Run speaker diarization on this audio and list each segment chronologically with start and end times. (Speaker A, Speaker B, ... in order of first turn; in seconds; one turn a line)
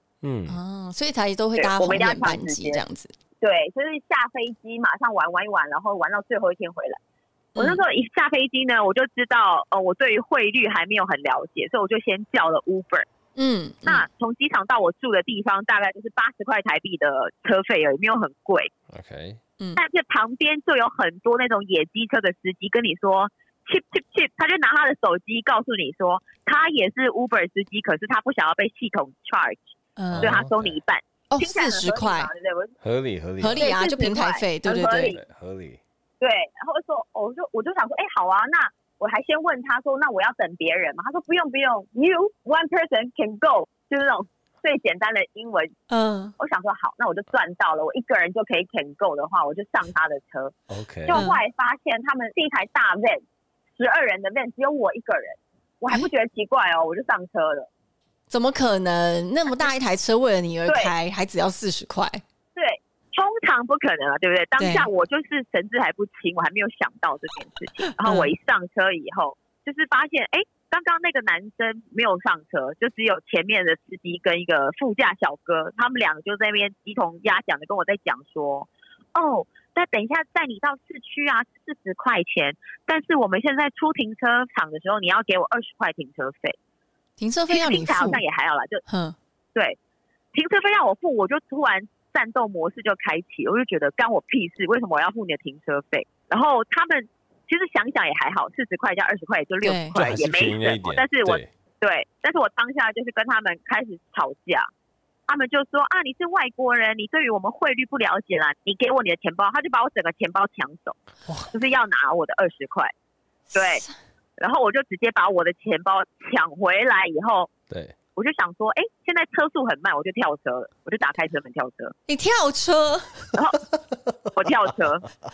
Speaker A: 0.2-0.6
Speaker B: 0.5-3.1
Speaker C: 1.6-2.8
Speaker C: 3.4-7.0
Speaker B: 7.6-7.8
Speaker C: 7.6-13.1
Speaker B: 13.4-14.1
Speaker C: 13.8-18.7
Speaker A: 18.9-19.4
Speaker C: 19.8-32.7
Speaker B: 30.0-30.4
Speaker A: 30.1-30.8
Speaker B: 31.3-32.3
Speaker A: 32.8-33.7
Speaker B: 33.4-35.1
Speaker C: 33.6-35.2
Speaker A: 34.9-35.8
Speaker C: 36.2-45.8
Speaker B: 45.9-46.3
Speaker C: 46.4-50.5
Speaker A: 50.7-51.2
Speaker C: 51.1-53.2
Speaker B: 51.1-51.4
Speaker C: 53.8-57.7
Speaker B: 58.3-62.2
Speaker C: 60.7-60.9
Speaker C: 62.6-86.6
Speaker B: 64.6-64.9
Speaker B: 68.0-68.3
Speaker B: 87.2-88.2
Speaker C: 87.5-88.8
Speaker B: 88.9-89.2
Speaker C: 90.3-104.7
Speaker B: 99.6-99.9
Speaker A: 100.0-101.5
Speaker C: 105.3-111.0
Speaker C: 111.5-112.9
Speaker B: 113.5-113.9
Speaker C: 113.5-113.8
Speaker C: 114.4-117.5
Speaker A: 117.7-118.0
Speaker C: 118.2-121.9
Speaker B: 122.1-123.3
Speaker C: 123.3-123.6
Speaker C: 124.3-125.1